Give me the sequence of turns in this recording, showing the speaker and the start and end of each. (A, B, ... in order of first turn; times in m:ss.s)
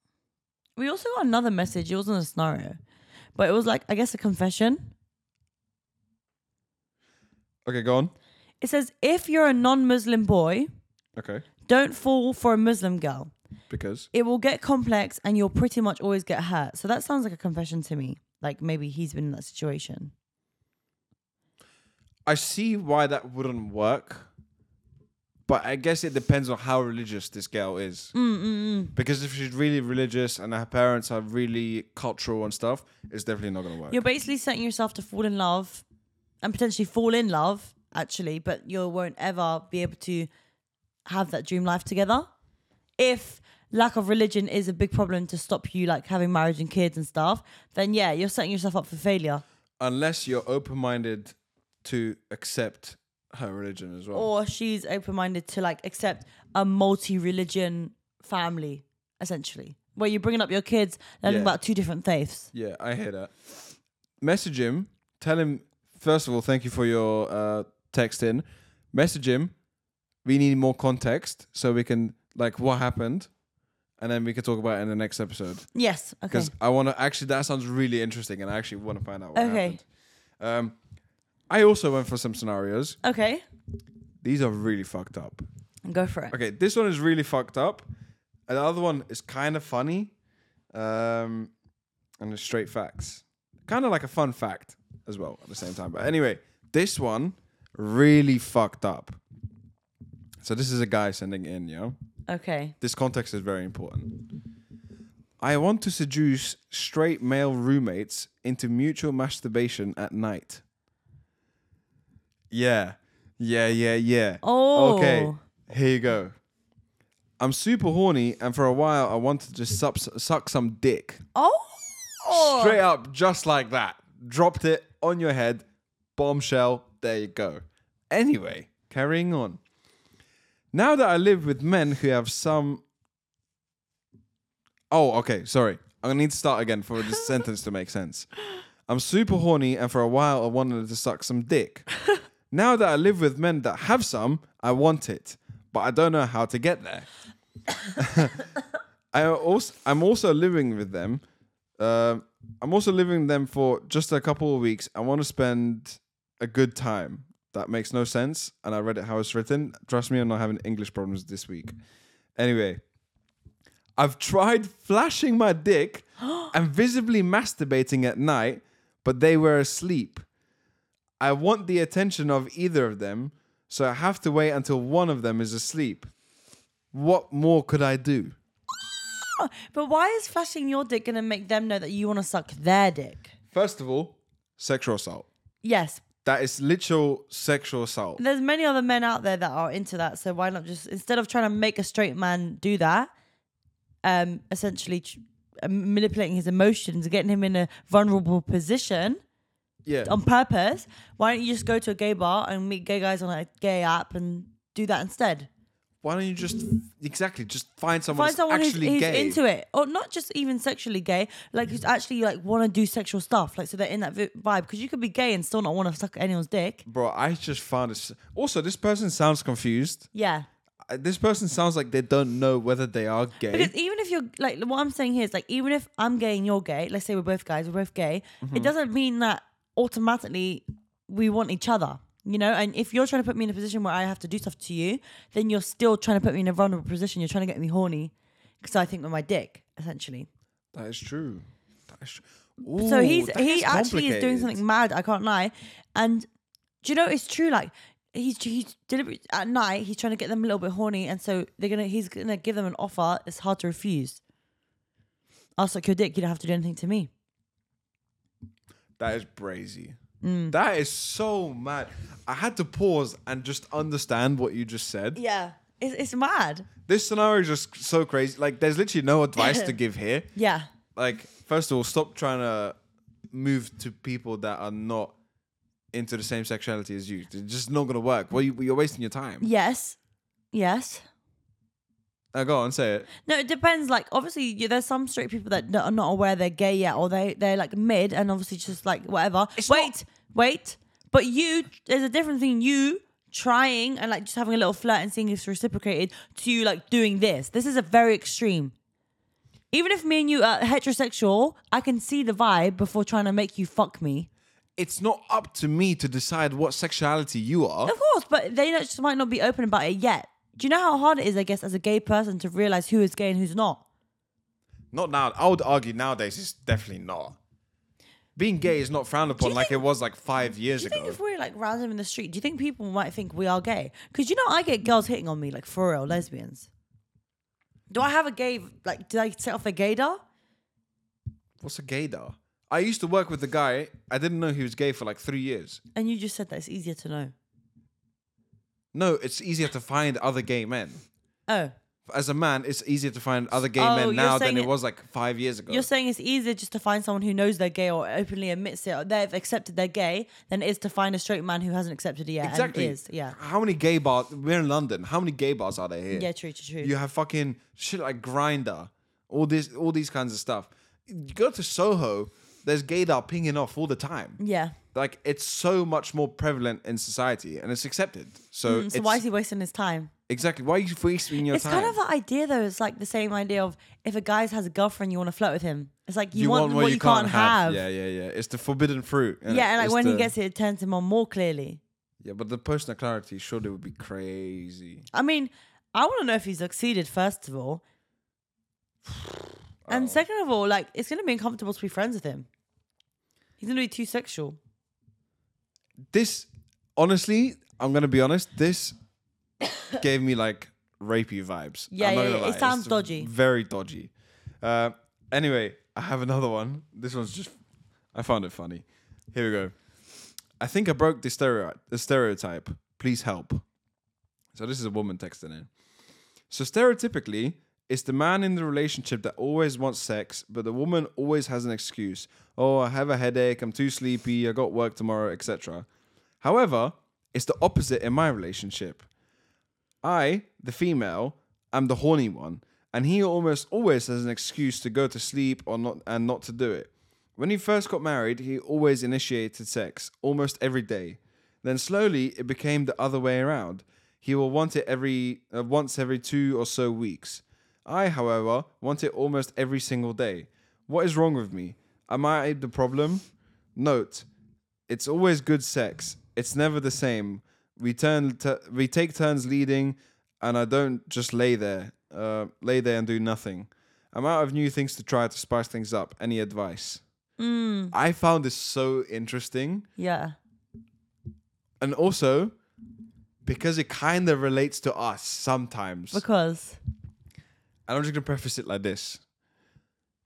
0:00.8-0:02.8 A
0:03.4-0:04.9 A
0:07.6-0:08.1 B
0:08.6-0:10.7 A
0:11.2-0:11.4 B
0:11.6-0:13.3 A
0:13.7-0:14.1 B
0:14.1-0:20.1 A
0:22.3-0:24.3 B
0:25.5-0:28.1 B
0:28.1-0:28.9 A
0:28.9-0:34.0 B
0:33.9-0:35.8 A
0:36.4-0:40.3 A
0:41.0-0:42.3 A
0:43.0-0:49.4 A
0:49.8-0:54.3 B
0:54.1-1:02.5 A
1:01.2-1:01.6 B
1:02.5-1:03.3 B
1:04.2-1:09.5 B
1:10.2-1:13.3 B
1:14.0-1:15.7 B
1:15.7-1:16.5 A
1:16.3-1:19.8 B
1:19.3-1:19.8 A
1:20.4-1:20.8 B
1:21.5-1:23.0 B
1:23.0-1:23.4 A
1:24.2-1:25.4 B
1:25.8-1:26.3 A
1:26.3-1:27.8 B
1:28.5-1:30.1 B
1:30.7-1:31.5 B
1:32.2-1:39.2 B
1:40.4-1:41.9 B
1:42.3-1:42.7 A
1:42.8-1:44.1 B
1:45.4-1:50.6 B
1:52.5-1:56.3 B
1:54.4-1:55.4 A
1:57.4-2:01.2 B
2:01.3-2:02.8 A
2:02.3-2:05.6 B
2:06.2-2:09.6 B
2:10.7-2:12.8 B
2:14.9-2:18.3 B
2:18.9-2:21.9 B
2:22.5-2:27.1 B
2:28.0-2:28.5 B
2:29.1-2:31.2 B
2:31.8-2:41.7 B
2:42.4-2:42.8 B
2:44.0-2:50.2 B
2:51.2-2:56.1 B
2:56.9-2:58.4 B
2:59.2-3:03.3 A
3:03.5-3:05.3 B
3:05.6-3:06.0 A
3:06.2-3:08.2 B
3:08.2-3:13.1 A
3:14.0-3:19.2 A
3:19.8-3:20.1 B
3:20.0-3:25.5 A
3:26.0-3:29.4 B
3:28.1-3:36.8 A
3:36.8-3:40.1 B
3:40.1-3:40.5 A
3:40.9-3:43.7 B
3:43.5-4:00.3 A
3:48.4-3:48.7 B
4:00.7-4:04.6 B
4:02.8-4:06.3 A
4:06.8-4:14.2 A
4:15.6-4:17.1 A
4:19.0-4:20.0 B
4:20.2-4:20.5 A
4:20.5-4:25.2 B
4:25.1-4:26.7 A
4:26.8-4:30.3 B
4:29.4-4:29.7 A
4:30.3-4:30.7 A
4:31.0-4:32.8 B
4:33.3-4:35.1 B
4:35.9-4:39.5 B
4:39.4-4:40.0 A
4:40.5-4:41.0 A
4:42.3-4:43.1 B
4:43.2-4:58.7 A
4:49.6-4:49.9 B
4:59.7-5:04.3 A
5:04.8-5:07.9 B
5:07.8-5:13.8 A
5:14.9-5:17.4 B
5:18.4-5:21.2 B
5:19.4-5:19.8 A
5:20.8-5:26.7 A
5:27.9-5:30.2 A
5:31.6-5:35.8 B
5:35.9-5:37.3 A
5:38.9-5:41.0 B
5:41.5-5:41.7 A
5:42.1-5:45.9 B
5:43.8-5:44.7 A
5:45.7-5:53.4 A
5:52.4-5:56.3 B
5:56.1-5:56.9 A
5:56.8-6:04.4 B
6:04.4-6:04.8 A
6:04.9-6:09.2 B
6:08.6-6:10.1 A
6:10.3-6:12.0 B
6:11.5-6:17.8 A
6:16.3-6:20.3 B
6:19.5-6:21.8 A
6:22.2-6:25.1 B
6:25.1-6:27.8 A
6:29.8-6:30.2 B
6:29.9-6:32.5 A
6:33.6-6:34.6 A
6:36.1-6:39.0 B
6:39.9-6:47.6 B
6:41.9-6:43.3 A
6:48.1-6:49.7 B
6:50.6-6:53.6 B
6:54.5-6:55.7 B
6:56.5-7:05.9 B
7:06.4-7:09.0 B
7:10.0-7:34.2 B
7:34.9-7:47.0 B
7:47.4-7:47.9 A
7:47.9-7:49.9 B
7:50.0-7:50.3 A
7:51.8-7:52.5 B
7:53.4-7:56.2 B
7:56.1-7:56.8 A
7:57.9-7:59.2 B